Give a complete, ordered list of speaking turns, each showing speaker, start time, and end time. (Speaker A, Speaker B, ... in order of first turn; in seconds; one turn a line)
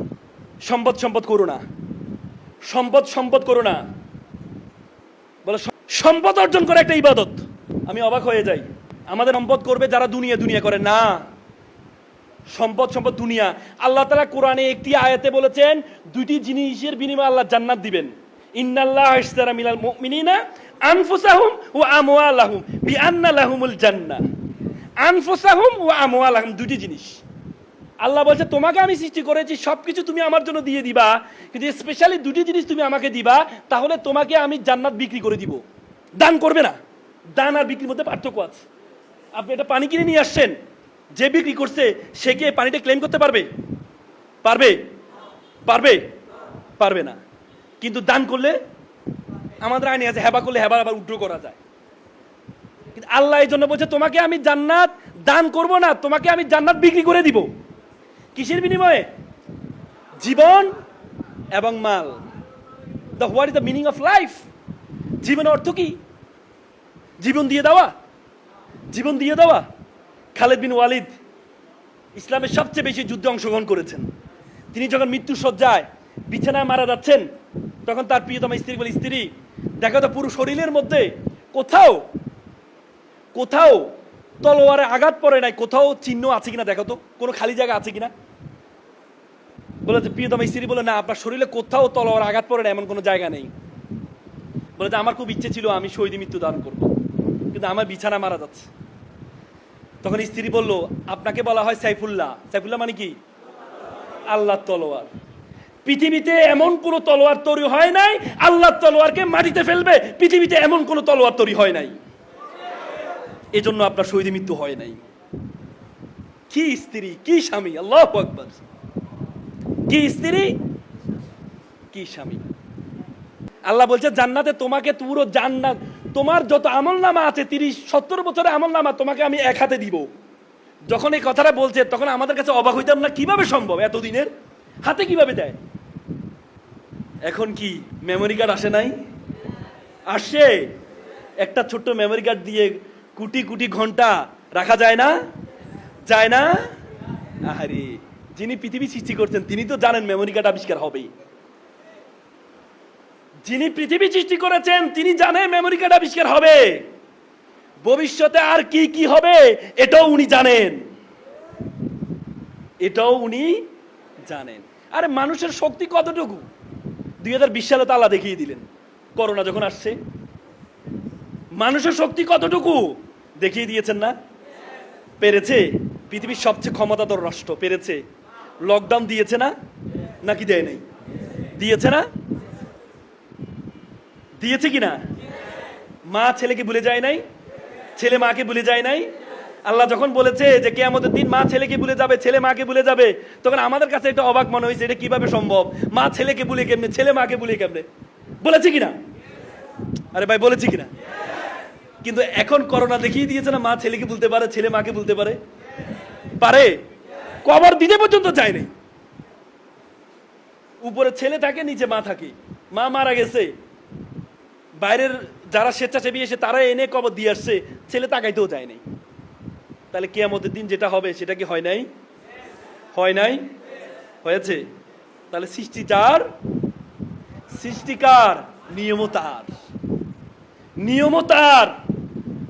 Speaker A: 0.6-1.6
Speaker A: 2.7-3.8
Speaker A: 5.4-11.3
Speaker A: 12.5-24.3
Speaker A: 25.0-27.2
Speaker A: 28.0-35.6
Speaker A: 36.2-36.8
Speaker A: 37.3-38.6
Speaker A: 39.3-40.5
Speaker A: 41.1-43.5
Speaker A: 44.4-44.8
Speaker A: 45.6-46.1
Speaker A: 46.8-47.2
Speaker A: 47.8-48.6
Speaker A: 49.6-51.6
Speaker A: 52.9-57.5
Speaker A: 58.3-59.1
Speaker A: 60.2-60.7
Speaker A: 61.5-62.2
Speaker A: 63.2-64.5
Speaker A: 65.2-66.0
Speaker A: 67.2-67.9
Speaker A: 68.9-69.7
Speaker A: 70.3-71.1
Speaker A: 72.1-74.1
Speaker A: 74.7-77.2
Speaker A: 77.8-82.0
Speaker A: 83.3-83.9
Speaker A: 84.4-88.1
Speaker A: 89.8-93.5
Speaker A: 94.8-96.9
Speaker A: 97.5-98.7
Speaker A: 100.0-103.2
Speaker A: 104.3-105.1
Speaker A: 105.8-112.0
Speaker A: 113.5-115.0
Speaker A: 116.5-118.6
Speaker A: 119.9-120.5
Speaker A: 121.9-122.4
Speaker A: 123.7-130.1
Speaker A: 130.9-134.3
Speaker A: 134.8-135.6
Speaker A: 137.2-139.0
Speaker A: 140.1-140.7
Speaker A: 141.4-145.2
Speaker A: 146.1-146.7
Speaker A: 147.4-151.1
Speaker A: 153.4-156.9
Speaker A: 157.8-160.9
Speaker A: 162.8-163.6
Speaker A: 164.2-166.4
Speaker A: 167.2-168.6
Speaker A: 169.2-170.0
Speaker A: 171.6-174.2
Speaker A: 175.2-178.0
Speaker A: 178.6-179.5
Speaker A: 180.2-180.8
Speaker A: 181.5-182.1
Speaker A: 184.4-185.0
Speaker A: 186.1-187.2
Speaker A: 187.9-189.1
Speaker A: 189.6-197.9
Speaker A: 198.4-199.0
Speaker A: 200.1-200.9
Speaker A: 202.0-205.4
Speaker A: 206.4-206.8
Speaker A: 207.4-208.7
Speaker A: 210.8-213.5
Speaker A: 214.8-218.8
Speaker A: 219.9-221.9
Speaker A: 222.9-223.5
Speaker A: 224.2-224.6
Speaker A: 225.3-226.2
Speaker A: 227.5-229.5
Speaker A: 230.8-231.7